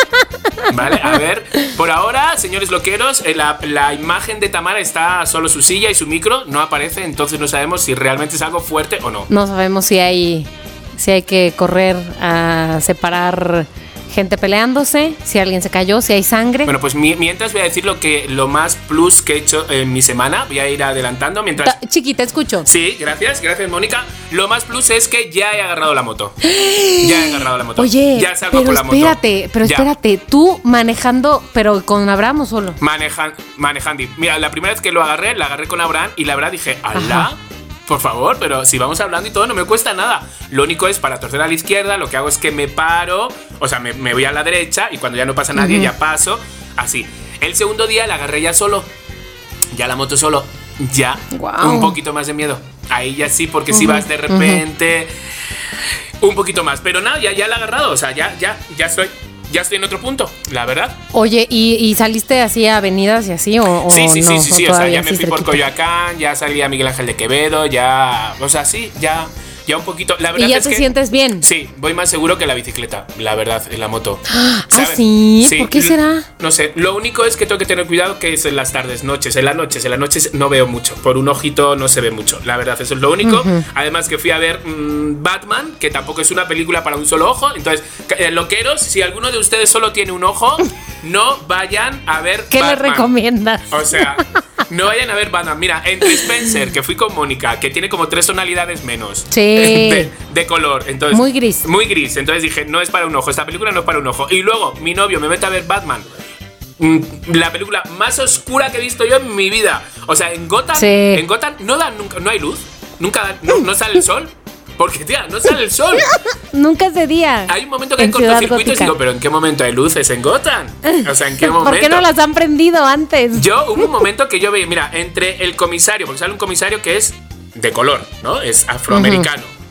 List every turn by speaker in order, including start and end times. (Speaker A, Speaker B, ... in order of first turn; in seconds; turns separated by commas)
Speaker A: 0.7-9.3, Speaker B: 9.3-16.7, Speaker A: 16.7-21.8, Speaker B: 21.6-22.7, Speaker A: 22.6-26.4, Speaker B: 26.4-32.8, Speaker A: 27.0-29.9, Speaker A: 32.8-48.9, Speaker B: 37.0-37.3, Speaker B: 45.6-45.9, Speaker A: 49.7-55.1, Speaker B: 51.3-52.0, Speaker B: 53.7-54.6, Speaker A: 56.2-61.0, Speaker B: 61.1-65.6, Speaker A: 63.9-70.9, Speaker B: 70.3-71.5, Speaker A: 71.4-93.1, Speaker B: 74.3-76.3, Speaker B: 83.2-83.6, Speaker B: 92.5-94.2, Speaker A: 93.7-106.1, Speaker B: 99.3-100.1, Speaker B: 101.1-101.6, Speaker A: 106.8-116.1, Speaker B: 110.8-111.2, Speaker B: 116.5-119.0, Speaker A: 117.5-122.1, Speaker B: 120.9-123.5, Speaker A: 123.3-129.5, Speaker B: 128.9-129.3